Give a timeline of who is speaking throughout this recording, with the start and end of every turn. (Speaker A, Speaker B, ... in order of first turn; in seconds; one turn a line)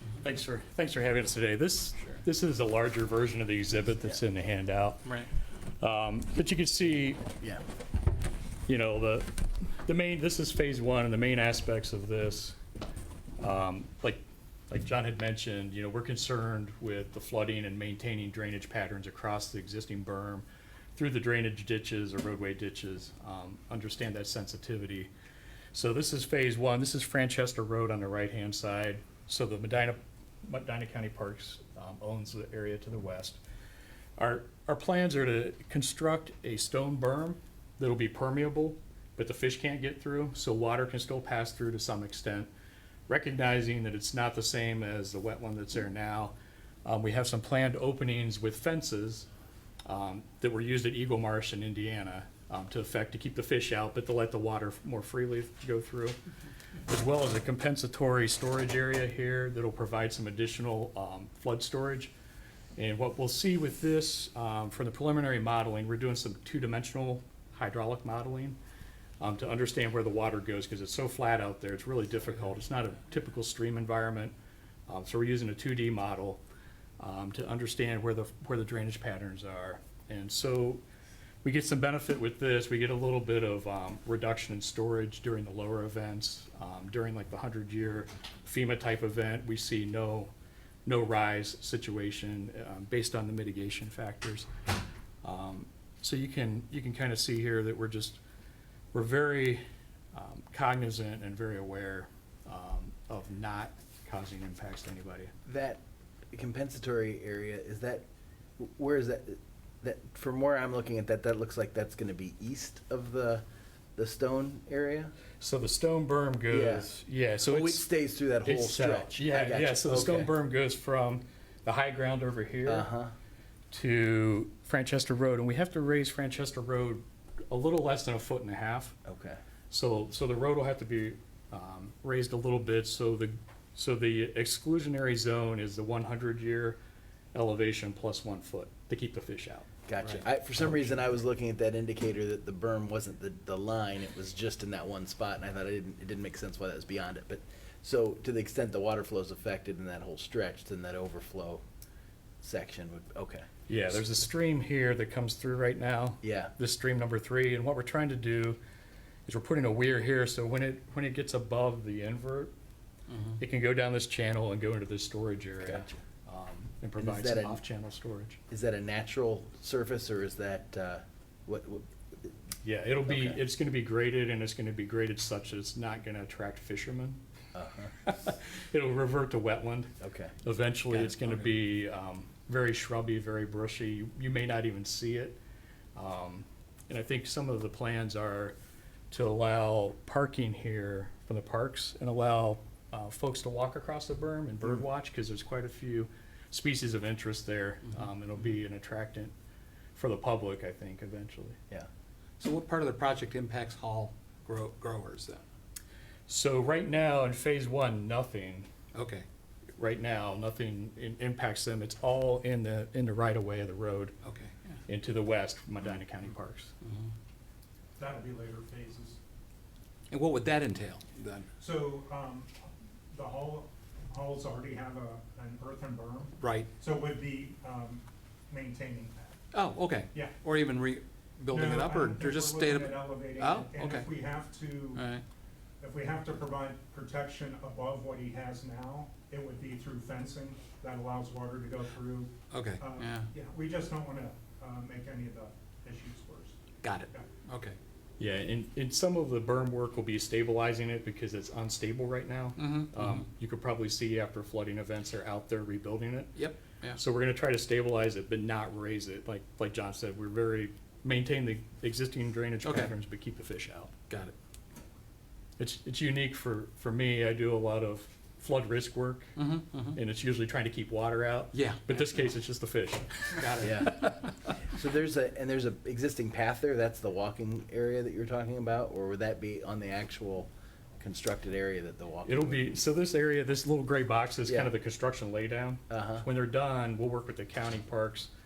Speaker A: 0.2-5.2
Speaker A: 5.8-7.2
Speaker A: 8.7-12.6
Speaker A: 13.4-25.1
Speaker A: 25.7-33.4
Speaker A: 34.2-42.5
Speaker A: 43.1-46.3
Speaker A: 46.9-49.3
Speaker A: 49.9-56.2
Speaker A: 56.9-62.1
Speaker A: 62.8-68.6
Speaker A: 69.2-74.3
Speaker A: 74.9-76.4
Speaker A: 77.0-80.8
Speaker A: 81.4-90.3
Speaker A: 90.9-94.5
Speaker A: 95.2-98.2
Speaker A: 98.9-99.6
Speaker A: 100.1-105.3
Speaker B: 105.5-105.8
Speaker B: 106.3-108.0
Speaker B: 108.6-113.4
Speaker B: 114.0-115.1
Speaker A: 115.4-117.9
Speaker B: 116.5-116.9
Speaker B: 117.5-120.3
Speaker A: 118.4-122.9
Speaker B: 122.7-123.2
Speaker A: 123.7-129.0
Speaker B: 129.1-129.4
Speaker A: 129.7-136.8
Speaker A: 137.3-139.7
Speaker B: 139.9-151.6
Speaker B: 152.4-153.4
Speaker A: 153.7-158.6
Speaker B: 156.2-156.5
Speaker A: 159.3-162.5
Speaker C: 163.1-163.4
Speaker A: 163.4-168.4
Speaker B: 165.6-165.9
Speaker B: 167.0-167.6
Speaker B: 168.5-172.4
Speaker A: 172.6-177.2
Speaker B: 173.1-173.4
Speaker B: 177.5-177.9
Speaker A: 178.0-179.9
Speaker B: 180.0-180.3
Speaker A: 180.4-185.4
Speaker C: 180.9-181.5
Speaker A: 186.0-188.6
Speaker A: 189.1-199.3
Speaker A: 200.0-201.6
Speaker C: 202.4-205.4
Speaker A: 206.3-208.7
Speaker C: 208.9-209.2
Speaker A: 209.8-214.2
Speaker C: 214.2-214.8
Speaker A: 214.9-216.7
Speaker C: 216.8-217.1
Speaker D: 218.0-219.2
Speaker C: 220.1-221.5
Speaker D: 221.6-229.3
Speaker C: 226.4-226.7
Speaker C: 229.5-234.1
Speaker D: 231.5-235.0
Speaker C: 234.9-235.2
Speaker D: 235.8-247.3
Speaker C: 242.5-243.3
Speaker C: 246.8-247.8
Speaker A: 248.2-256.4
Speaker C: 252.6-253.3
Speaker C: 256.4-257.0
Speaker A: 256.9-263.9
Speaker C: 262.6-262.9
Speaker C: 264.1-264.4
Speaker A: 265.6-269.3
Speaker C: 269.4-270.0
Speaker A: 269.9-273.3
Speaker C: 271.5-272.2
Speaker C: 273.3-274.4
Speaker B: 273.6-273.9
Speaker B: 274.7-282.6
Speaker A: 282.3-288.3
Speaker B: 284.5-284.7
Speaker B: 285.9-286.3